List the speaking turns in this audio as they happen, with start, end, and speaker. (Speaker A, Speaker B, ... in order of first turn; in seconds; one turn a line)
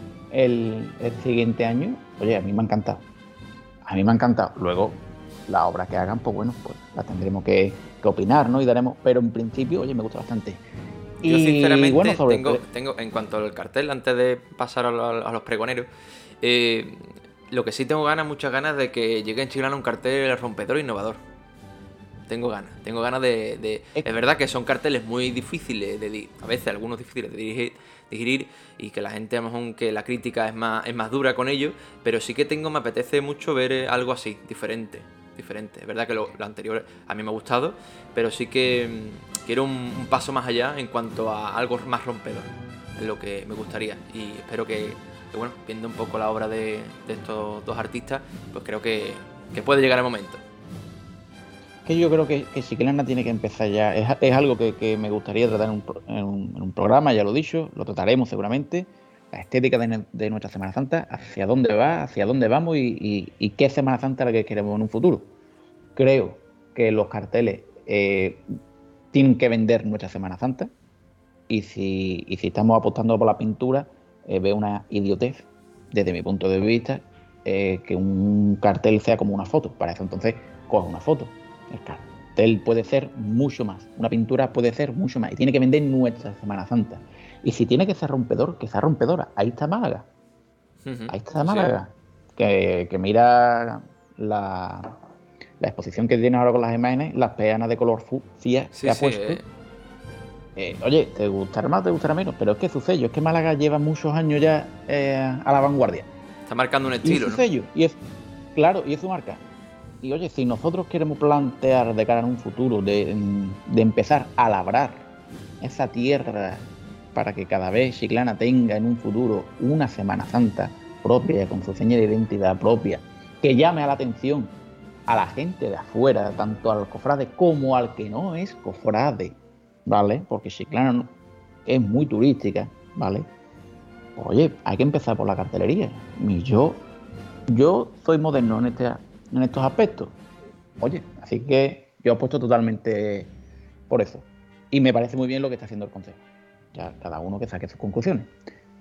Speaker A: 0.3-3.0
Speaker A: 3.8-10.6
Speaker A: 11.2-12.6
Speaker B: 11.2-15.9
Speaker B: 16.4-21.2
Speaker B: 22.3-50.4
Speaker A: 51.9-65.3
Speaker A: 66.0-68.5
Speaker A: 69.1-70.7
Speaker A: 71.5-90.1
Speaker B: 90.8-91.7
Speaker A: 91.1-95.0
Speaker A: 95.6-99.4
Speaker B: 98.7-99.5
Speaker A: 100.6-106.1
Speaker B: 106.5-107.4
Speaker A: 107.0-108.0
Speaker A: 108.5-109.4
Speaker A: 110.0-115.1
Speaker A: 115.6-124.5
Speaker A: 125.1-131.1
Speaker A: 131.7-133.3
Speaker A: 134.2-136.8
Speaker A: 137.5-140.2
Speaker A: 140.8-143.3
Speaker A: 143.9-146.2
Speaker A: 146.7-148.3